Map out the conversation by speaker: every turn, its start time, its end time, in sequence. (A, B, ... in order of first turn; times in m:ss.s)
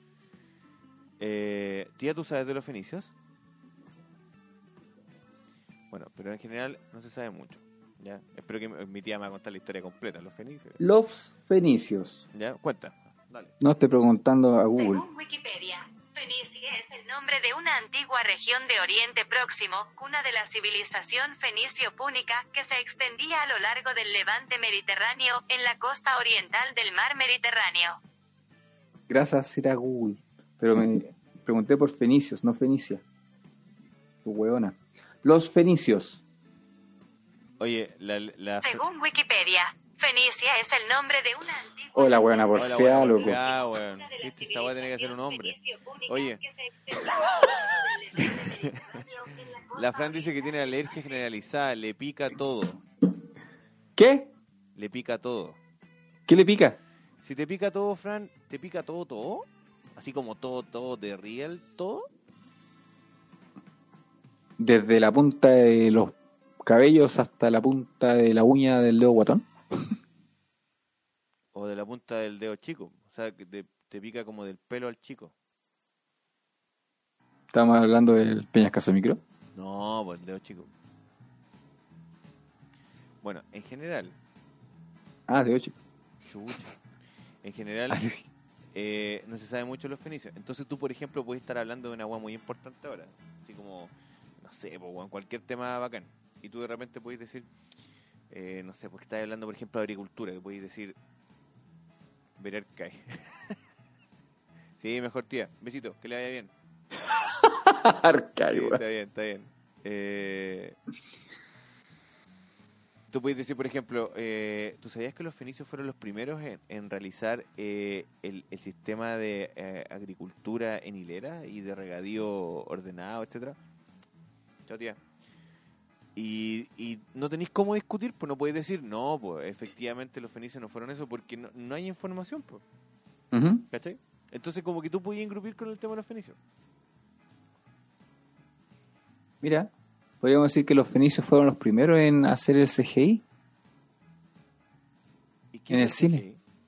0:01.2-0:03.1 A
0:05.9-0:10.8 A
0:10.8-0:12.2 B
0:12.3-0:13.5 A
0:13.6-0:15.0 B
0:14.8-0:28.0 C
0:29.1-0:33.0 B
0:34.2-0:36.2 B
0:37.6-0:38.8 A
0:38.6-0:42.7 C
0:42.0-0:43.4 B
0:42.6-0:46.4 A
0:43.2-0:50.6 C
0:48.2-0:49.0 A
0:49.7-0:52.8 A
0:54.0-0:54.3 B
0:54.8-0:55.6 A
0:56.3-0:56.8 B
0:57.2-1:02.1 A
1:04.6-1:09.9 B
1:11.5-1:15.3 A
1:17.5-1:19.2 B
1:19.6-1:20.7 A
1:23.2-1:24.2 A
1:25.3-1:25.8 B
1:26.3-1:26.7 A
1:27.4-1:28.1 A
1:27.9-1:28.2 B
1:28.7-1:37.5 A
1:38.3-1:41.0 A
1:42.4-1:43.6 A
1:44.8-1:46.5 A
1:47.1-1:48.8 B
1:48.4-1:50.8 A
1:53.1-2:03.6 A
2:04.7-2:05.0 A
2:06.2-2:12.6 A
2:13.3-2:13.6 B
2:13.7-2:16.4 A
2:19.4-2:23.2 B
2:25.5-2:26.4 A
2:25.7-2:26.2 B